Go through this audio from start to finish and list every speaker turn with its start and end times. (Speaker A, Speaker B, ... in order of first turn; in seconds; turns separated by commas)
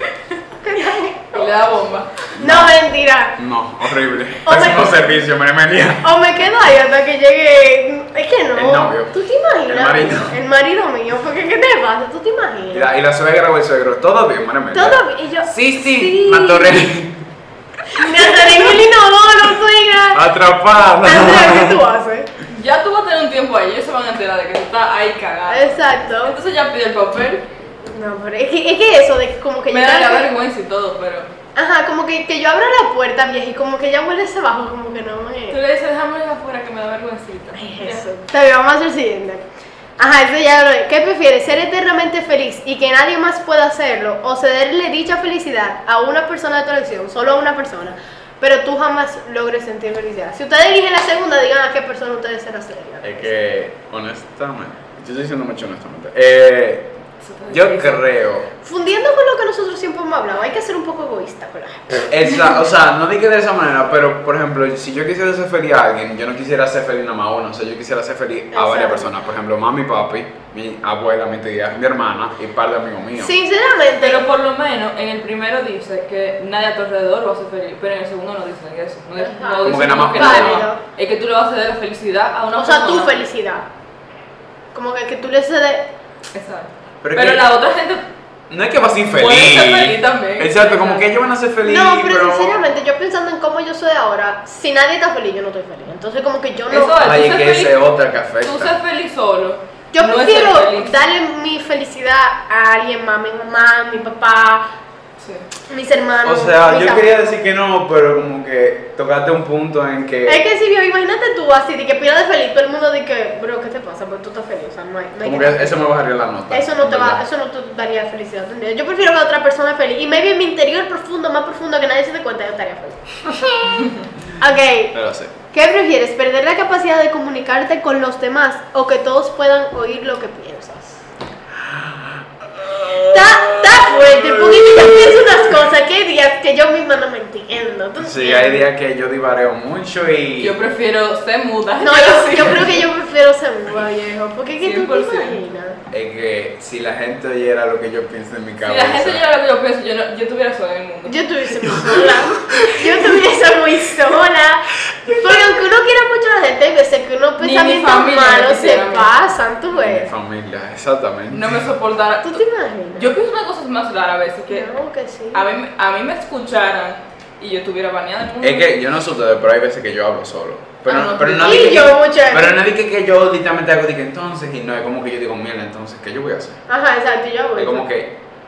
Speaker A: 0.6-1.5, Speaker B: 1.3-2.3, Speaker C: 2.4-2.8, Speaker A: 2.4-3.4, Speaker C: 3.4-6.1, Speaker A: 4.5-5.0, Speaker A: 6.0-12.9, Speaker C: 8.5-9.1, Speaker C: 9.7-10.4, Speaker C: 12.7-17.2, Speaker A: 14.7-16.9, Speaker A: 17.9-20.2, Speaker C: 18.0-18.6, Speaker C: 20.1-21.8, Speaker A: 21.0-22.3, Speaker B: 22.5-27.4, Speaker A: 25.5-26.4, Speaker A: 27.8-30.3, Speaker B: 29.7-31.3, Speaker A: 31.6-35.6, Speaker B: 35.5-38.1, Speaker A: 37.5-39.5, Speaker A: 40.0-53.3, Speaker C: 53.0-56.9, Speaker B: 57.2-58.0, Speaker C: 57.5-58.5, Speaker A: 58.6-61.9, Speaker C: 62.0-73.3, Speaker A: 68.5-69.1, Speaker A: 73.2-74.2, Speaker B: 74.0-83.2, Speaker A: 79.2-80.8, Speaker C: 79.7-80.7, Speaker A: 82.6-83.7, Speaker A: 84.7-85.9, Speaker B: 86.3-88.0, Speaker C: 87.0-87.5, Speaker C: 88.5-92.6, Speaker B: 89.1-91.2, Speaker A: 91.6-97.0, Speaker B: 96.7-97.8, Speaker C: 97.0-98.8, Speaker B: 98.4-101.0, Speaker A: 99.9-104.7, Speaker B: 105.2-105.5, Speaker A: 105.7-107.3, Speaker C: 106.2-110.4, Speaker A: 110.3-115.8, Speaker C: 115.2-117.2, Speaker A: 116.5-125.0, Speaker C: 124.9-125.3, Speaker A: 125.5-131.0, Speaker C: 131.6-135.5, Speaker A: 133.1-138.6, Speaker C: 138.0-140.6, Speaker B: 140.4-142.9, Speaker A: 141.8-145.8, Speaker B: 144.6-145.4, Speaker C: 145.9-149.2, Speaker B: 148.6-151.2, Speaker A: 151.1-160.1, Speaker C: 151.6-153.2, Speaker C: 155.0-155.6, Speaker B: 157.4-159.3, Speaker C: 159.7-161.7, Speaker B: 161.3-164.7, Speaker A: 162.2-163.2, Speaker A: 164.5-165.4, Speaker B: 165.3-168.7, Speaker C: 168.4-176.6, Speaker B: 170.9-171.9, Speaker A: 171.3-172.6, Speaker A: 176.7-177.9, Speaker C: 177.6-178.2